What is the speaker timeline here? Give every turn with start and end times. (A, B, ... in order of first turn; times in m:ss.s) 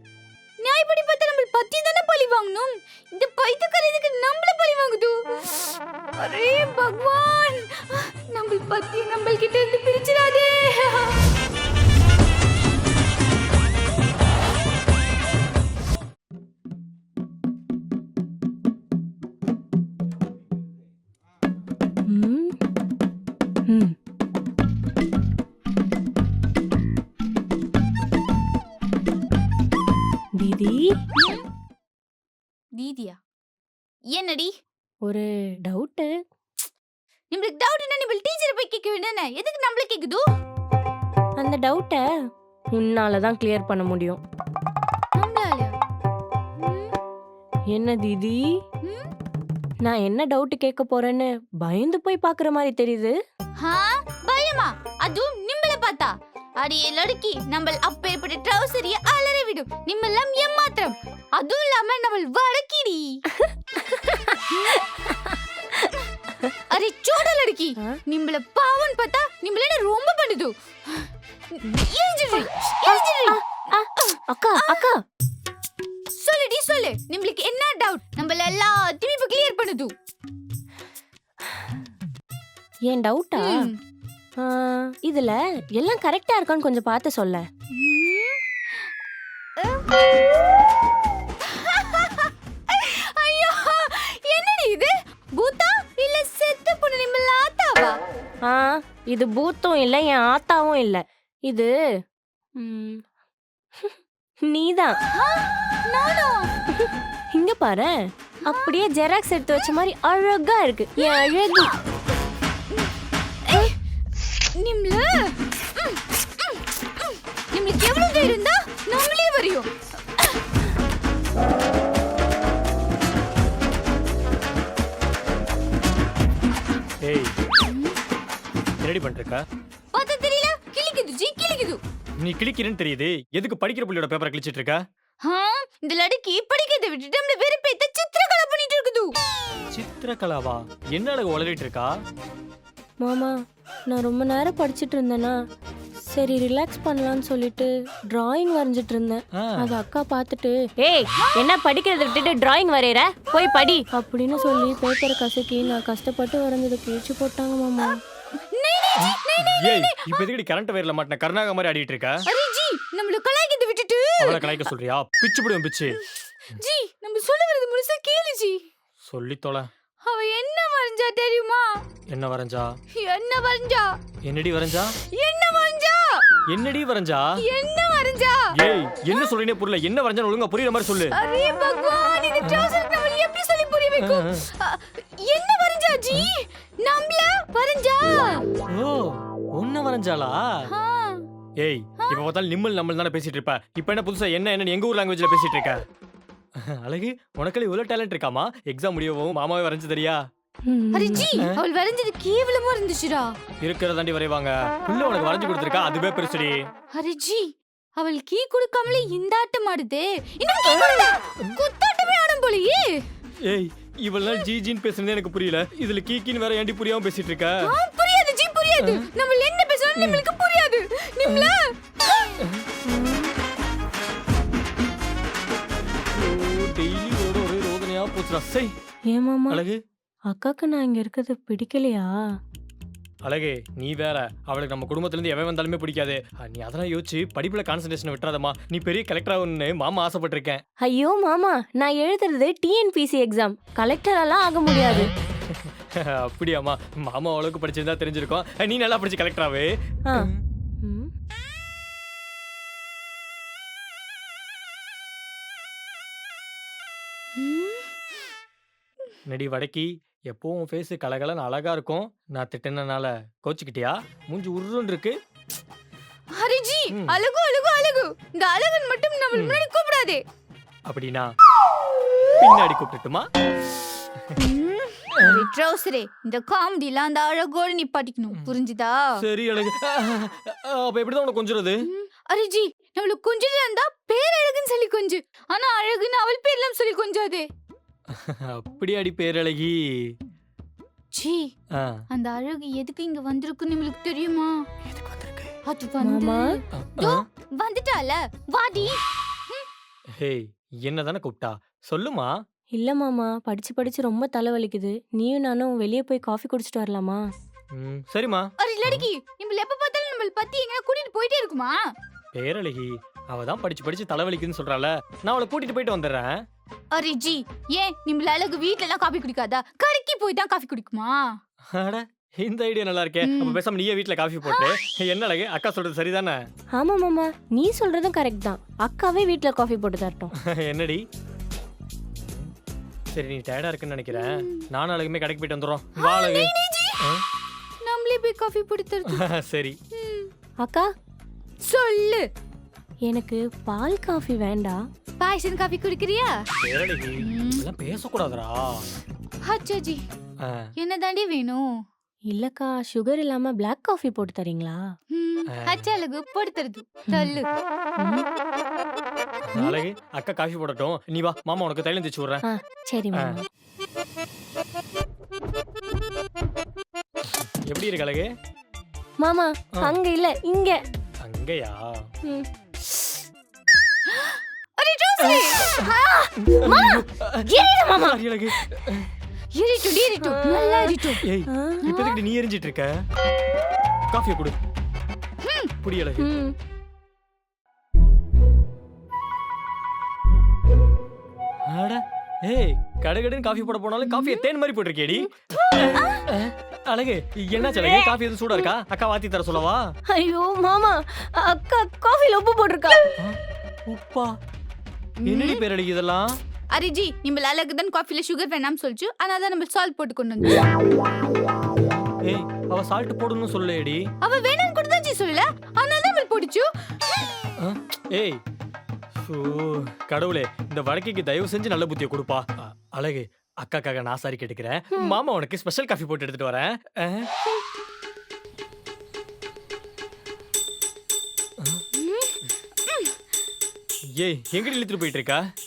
0:00.6-0:11.3 A
0:22.1-0:22.6 B
0:23.7-0:24.0 B
0:30.4-0:30.9 B
0:31.1-0:31.4 A
0:32.8-0:33.2 A
0:34.1-0:34.5 A
0:35.0-0:36.1 B
0:37.3-0:40.2 A
0:41.4-0:42.0 B
0:42.7-0:44.2 B
0:45.2-0:45.7 A
0:46.6-0:47.0 A
0:47.7-0:48.4 B
0:48.8-0:49.1 A
0:49.8-0:53.1 B
0:53.6-1:03.2 A
1:03.3-1:06.5 B
1:04.0-1:04.8 A
1:06.0-1:13.4 A
1:12.8-1:15.0 B
1:14.6-1:14.9 A
1:16.2-1:19.9 A
1:21.4-1:21.8 B
1:22.9-1:23.7 B
1:23.4-1:23.8 A
1:24.4-1:27.5 B
1:27.7-1:28.9 A
1:29.6-1:29.8 A
1:31.4-1:38.0 A
1:38.4-1:41.7 B
1:42.6-1:43.1 B
1:43.8-1:45.0 B
1:45.1-1:46.5 A
1:46.7-1:51.7 B
1:48.4-1:48.8 A
1:51.0-1:51.5 A
1:53.4-1:53.8 A
1:54.6-2:00.4 A
2:07.0-2:07.3 C
2:07.6-2:08.0 A
2:08.8-2:09.4 C
2:09.9-2:11.8 A
2:12.2-2:14.8 C
2:15.2-2:19.1 A
2:19.7-2:22.0 C
2:23.0-2:23.3 B
2:23.9-2:25.4 B
2:26.1-2:38.0 B
2:29.4-2:29.8 C
2:37.8-2:40.2 A
2:39.0-2:42.2 C
2:42.2-2:44.7 A
2:44.2-2:46.0 C
2:46.4-2:48.6 A
2:49.0-2:49.7 C
2:50.0-2:51.8 A
2:52.1-2:52.7 C
2:52.9-2:54.0 A
2:54.2-2:55.0 C
2:55.1-2:56.2 A
2:56.5-2:57.4 C
2:57.4-2:58.6 A
2:58.5-3:01.2 C
3:01.1-3:08.4 A
3:02.4-3:02.7 C
3:04.0-3:04.4 C
3:08.7-3:10.7 C
3:10.6-3:11.2 A
3:11.6-3:15.8 C
3:16.6-3:20.2 C
3:20.7-3:21.4 B
3:20.9-3:23.3 A
3:23.6-3:26.7 C
3:26.9-3:33.0 A
3:30.6-3:31.6 C
3:33.4-3:37.7 C
3:37.6-3:42.3 A
3:38.8-3:39.1 C
3:40.0-3:40.2 C
3:41.2-3:41.5 C
3:42.4-3:42.7 C
3:46.2-3:48.7 C
3:49.1-3:49.6 B
3:49.5-3:49.8 C
3:50.3-3:52.1 B
3:53.2-4:00.6 C
4:00.8-4:05.1 B
4:04.9-4:10.4 C
4:10.8-4:11.1 B
4:17.4-4:18.0 A
4:19.3-4:25.2 C
4:26.3-4:30.2 A
4:26.9-4:27.2 C
4:29.3-4:29.6 C
4:30.8-4:31.3 C
4:32.4-4:33.3 C
4:34.4-4:39.1 A
4:35.2-4:35.5 C
4:39.2-4:41.8 C
4:41.8-4:47.5 A
4:48.1-4:50.2 C
4:51.1-4:51.5 A
4:51.7-4:52.0 C
4:52.1-4:54.6 A
4:54.8-4:55.6 C
4:55.6-4:59.7 A
4:56.0-4:56.4 B
4:56.7-4:57.2 C
5:00.2-5:02.4 C
5:02.8-5:07.2 B
5:07.7-5:09.1 C
5:08.6-5:11.8 A
5:12.3-5:16.4 C
5:16.9-5:21.3 A
5:21.7-5:26.4 C
5:23.2-5:23.6 A
5:24.4-5:24.8 A
5:26.7-5:30.3 B
5:30.4-5:31.0 C
5:32.1-5:32.5 C
5:33.1-5:37.2 C
5:34.1-5:34.7 A
5:36.0-5:37.0 A
5:37.8-5:39.2 A
5:39.1-5:39.8 C
5:39.9-5:40.3 A
5:40.6-5:40.9 B
5:41.6-5:42.2 A
5:43.1-5:44.8 B
5:45.2-5:46.4 A
5:46.6-5:48.9 C
5:47.2-5:47.6 A
5:49.4-5:50.0 A
5:50.4-5:50.7 C
5:50.8-5:51.6 A
5:52.3-5:54.9 B
5:55.1-5:57.5 A
5:55.5-5:55.8 C
5:57.1-5:57.4 B
5:58.0-5:58.3 B
5:59.4-6:02.4 C
6:02.4-6:03.5 B
6:07.3-6:08.3 C
6:09.2-6:10.8 B
6:11.2-6:12.1 C
6:12.2-6:13.2 B
6:14.1-6:17.0 A
6:15.3-6:15.9 C
6:15.9-6:16.9 B
6:16.4-6:19.1 C
6:17.5-6:18.9 B
6:19.5-6:21.2 A
6:20.2-6:21.8 B
6:21.2-6:23.0 C
6:21.8-6:22.2 A
6:24.1-6:24.6 C
6:25.4-6:25.7 A
6:25.8-6:26.3 C
6:26.2-6:26.6 B
6:31.7-6:39.9 C
6:35.6-6:36.0 B
6:36.0-6:36.2 A
6:37.7-6:38.7 B
6:40.1-6:43.0 B
6:43.2-6:44.3 C
6:45.2-6:45.6 A
6:45.2-6:46.3 C
6:46.7-6:50.7 A
6:51.8-6:54.1 C
6:54.2-6:57.3 A
6:57.6-6:58.4 C
6:59.2-7:07.3 C
7:11.6-7:11.8 C
7:12.0-7:13.2 A
7:14.2-7:15.4 C